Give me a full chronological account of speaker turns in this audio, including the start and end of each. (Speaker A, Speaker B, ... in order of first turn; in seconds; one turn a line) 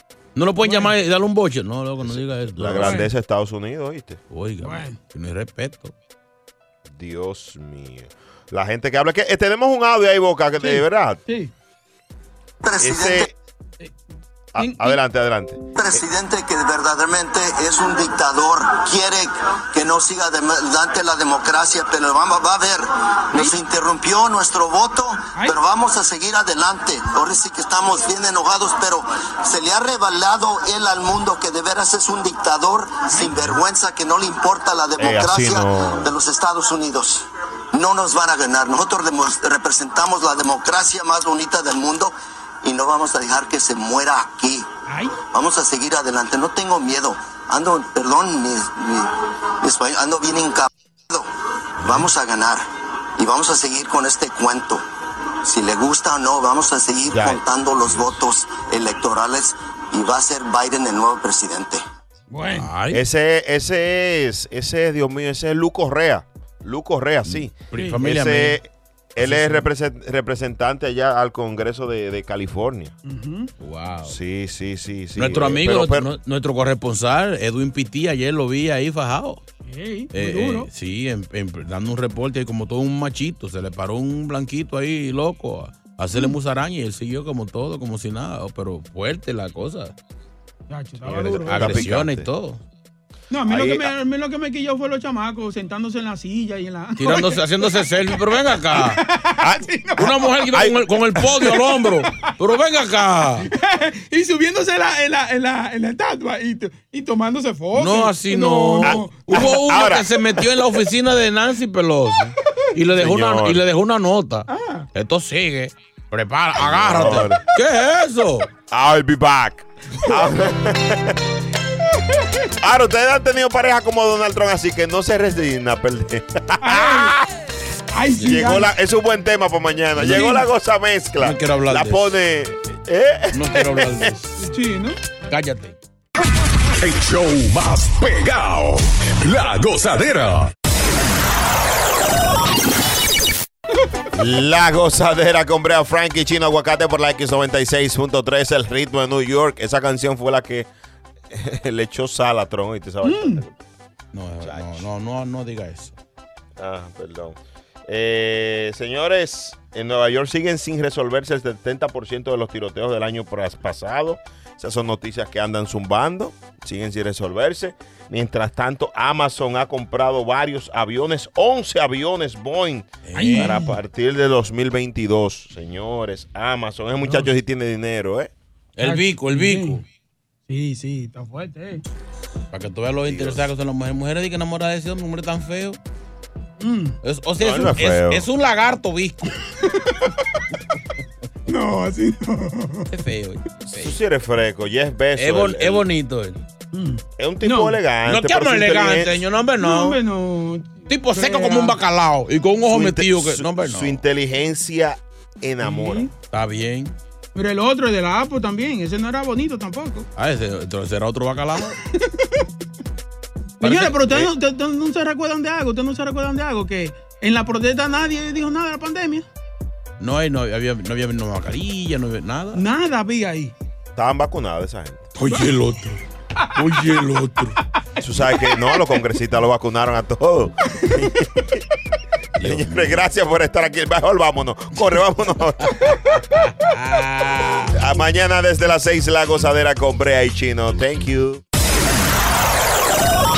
Speaker A: 0.3-3.0
Speaker B: 0.6-0.9
Speaker C: 2.0-4.2
Speaker B: 2.8-3.1
Speaker A: 4.3-5.9
Speaker B: 4.6-5.0
Speaker C: 6.9-11.2
Speaker B: 10.6-11.5
Speaker D: 12.6-13.3
Speaker C: 12.8-13.3
Speaker C: 14.5-15.7
Speaker B: 14.6-15.0
Speaker D: 15.7-44.6
Speaker C: 35.0-36.1
Speaker B: 44.9-45.1
Speaker D: 45.3-51.3
Speaker D: 51.8-52.6
Speaker D: 53.1-54.8
Speaker D: 55.4-61.8
Speaker C: 57.1-57.4
Speaker B: 62.3-62.7
Speaker A: 62.5-63.0
Speaker C: 62.9-72.9
Speaker A: 67.2-68.6
Speaker A: 69.2-69.6
Speaker B: 73.0-73.5
Speaker A: 73.6-74.2
Speaker C: 74.0-76.1
Speaker A: 75.2-79.4
Speaker B: 79.6-80.7
Speaker A: 80.1-89.9
Speaker B: 90.7-91.9
Speaker A: 91.0-92.6
Speaker C: 91.1-92.3
Speaker B: 93.3-100.7
Speaker C: 93.5-93.9
Speaker A: 97.0-99.0
Speaker A: 100.0-103.5
Speaker B: 101.3-102.2
Speaker B: 103.5-109.5
Speaker A: 107.7-118.5
Speaker C: 108.8-110.1
Speaker C: 113.0-113.6
Speaker B: 114.5-114.9
Speaker C: 116.6-117.4
Speaker C: 118.7-121.0
Speaker C: 122.6-127.2
Speaker B: 126.6-127.1
Speaker B: 127.9-128.7
Speaker C: 128.2-134.1
Speaker A: 129.9-130.3
Speaker B: 130.0-130.5
Speaker A: 131.2-132.1
Speaker A: 133.3-134.4
Speaker B: 134.4-135.0
Speaker A: 135.3-135.8
Speaker E: 136.8-140.5
Speaker C: 144.1-150.7
Speaker C: 151.3-153.5
Speaker B: 153.0-153.4
Speaker A: 154.1-155.9
Speaker C: 154.4-154.8
Speaker C: 156.6-178.3
Speaker A: 173.0-173.6
Speaker B: 173.2-173.8
Speaker B: 177.0-177.3
Speaker A: 178.8-179.8
Speaker B: 178.8-179.8
Speaker B: 180.5-181.8
Speaker A: 182.5-185.8
Speaker C: 183.0-183.5
Speaker B: 186.6-187.0
Speaker A: 187.0-189.4
Speaker C: 187.4-188.3
Speaker B: 189.6-190.1
Speaker B: 191.5-192.9
Speaker A: 192.9-193.9
Speaker C: 193.7-195.8
Speaker A: 195.2-196.4
Speaker B: 196.7-197.8
Speaker C: 197.2-199.2
Speaker A: 198.1-200.0
Speaker B: 199.6-201.8
Speaker A: 200.9-204.0
Speaker C: 202.7-206.1
Speaker B: 205.6-206.1
Speaker A: 206.3-206.9
Speaker B: 207.3-210.1
Speaker A: 210.2-211.8
Speaker B: 212.0-212.4
Speaker B: 213.6-219.2
Speaker A: 213.6-214.3
Speaker A: 220.0-222.6
Speaker B: 222.5-223.5
Speaker C: 223.9-225.1
Speaker A: 225.1-226.0
Speaker A: 226.5-227.6
Speaker C: 228.0-231.3
Speaker B: 228.3-228.8
Speaker A: 232.4-233.0
Speaker C: 232.4-235.7
Speaker A: 236.4-237.7
Speaker C: 237.7-241.4